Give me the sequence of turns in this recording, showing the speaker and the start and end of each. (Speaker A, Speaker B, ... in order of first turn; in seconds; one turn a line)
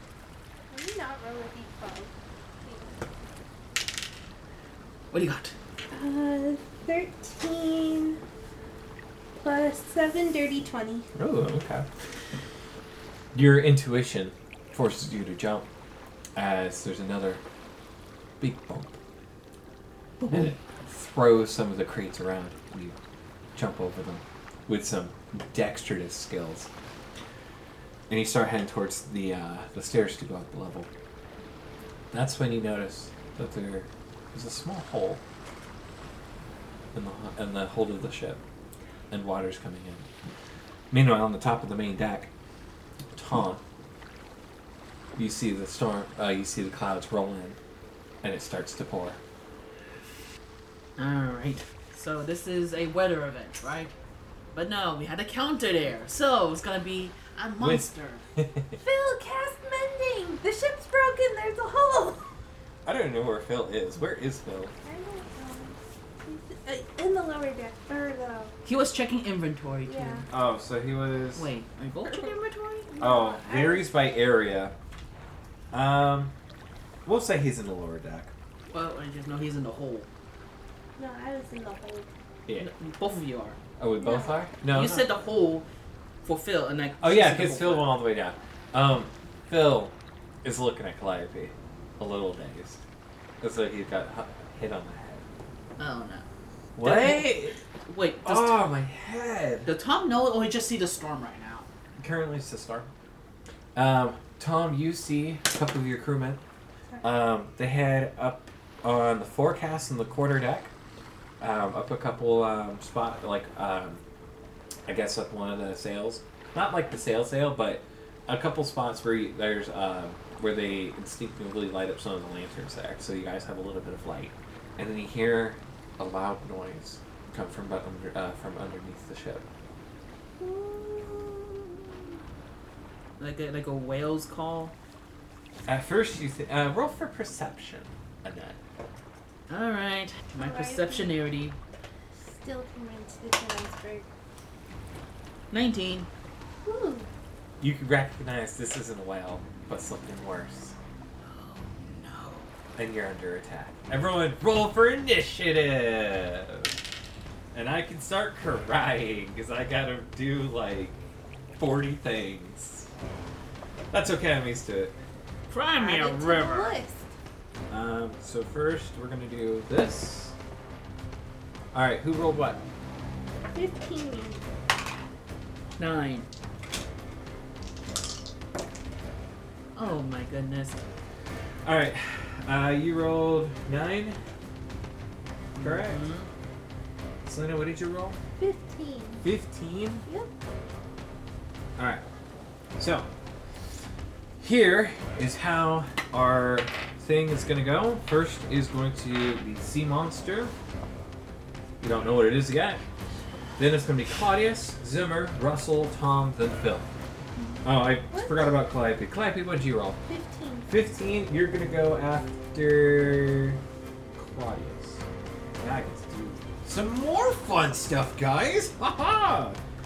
Speaker A: 0.7-3.1
Speaker B: 5.1-5.5
Speaker A: 5.9-8.2
Speaker A: 9.4-11.1
Speaker C: 11.1-11.9
Speaker C: 13.3-15.7
Speaker C: 16.4-17.4
Speaker C: 18.4-19.0
Speaker B: 20.2-20.5
Speaker C: 20.3-23.0
Speaker C: 23.5-26.7
Speaker C: 28.1-30.9
Speaker C: 32.1-35.2
Speaker C: 36.9-38.4
Speaker C: 39.1-40.1
Speaker C: 40.9-42.3
Speaker C: 43.1-43.6
Speaker C: 45.1-47.6
Speaker C: 48.2-49.2
Speaker B: 51.0-53.9
Speaker B: 54.5-58.2
Speaker C: 57.6-58.8
Speaker A: 58.8-62.3
Speaker C: 62.8-64.7
Speaker A: 64.8-68.5
Speaker B: 68.6-70.2
Speaker A: 69.8-70.2
Speaker C: 70.3-71.5
Speaker B: 71.3-72.8
Speaker A: 72.0-73.9
Speaker C: 73.0-74.7
Speaker C: 75.7-76.3
Speaker C: 77.0-78.3
Speaker B: 78.7-80.1
Speaker A: 81.0-82.1
Speaker B: 82.6-83.6
Speaker C: 83.8-85.1
Speaker A: 84.0-84.4
Speaker B: 84.7-85.7
Speaker B: 86.2-88.0
Speaker C: 87.0-92.8
Speaker C: 93.4-95.2
Speaker B: 95.8-96.2
Speaker C: 96.8-97.6
Speaker B: 96.8-98.6
Speaker C: 98.2-99.7
Speaker B: 99.7-101.7
Speaker C: 102.0-102.9
Speaker C: 103.7-106.4
Speaker C: 107.0-110.7
Speaker C: 111.4-114.0
Speaker C: 114.9-129.4
Speaker A: 130.4-132.0
Speaker B: 133.2-134.7
Speaker C: 135.7-138.6
Speaker B: 139.5-141.6
Speaker A: 140.3-141.2
Speaker A: 142.1-144.1
Speaker B: 145.5-146.1
Speaker A: 146.6-147.1
Speaker C: 147.6-150.8
Speaker B: 151.2-152.5
Speaker C: 152.8-156.8
Speaker C: 157.5-161.0
Speaker C: 161.6-162.9
Speaker C: 163.9-164.9
Speaker B: 165.5-166.7
Speaker A: 165.8-167.1
Speaker C: 167.7-170.3
Speaker C: 171.7-172.6
Speaker A: 173.5-174.5
Speaker B: 175.8-176.3
Speaker B: 179.7-180.8
Speaker C: 181.6-184.2
Speaker B: 185.5-186.3
Speaker C: 185.6-186.0
Speaker C: 187.2-188.2
Speaker A: 188.4-189.3
Speaker C: 189.2-190.0
Speaker A: 190.1-190.3
Speaker C: 191.8-192.0
Speaker C: 192.8-193.1
Speaker C: 194.4-200.5
Speaker C: 201.8-202.8
Speaker C: 203.6-206.9
Speaker A: 207.4-208.6
Speaker C: 207.6-210.0
Speaker A: 210.1-210.7
Speaker C: 210.7-213.6
Speaker C: 214.1-215.0
Speaker C: 215.6-219.6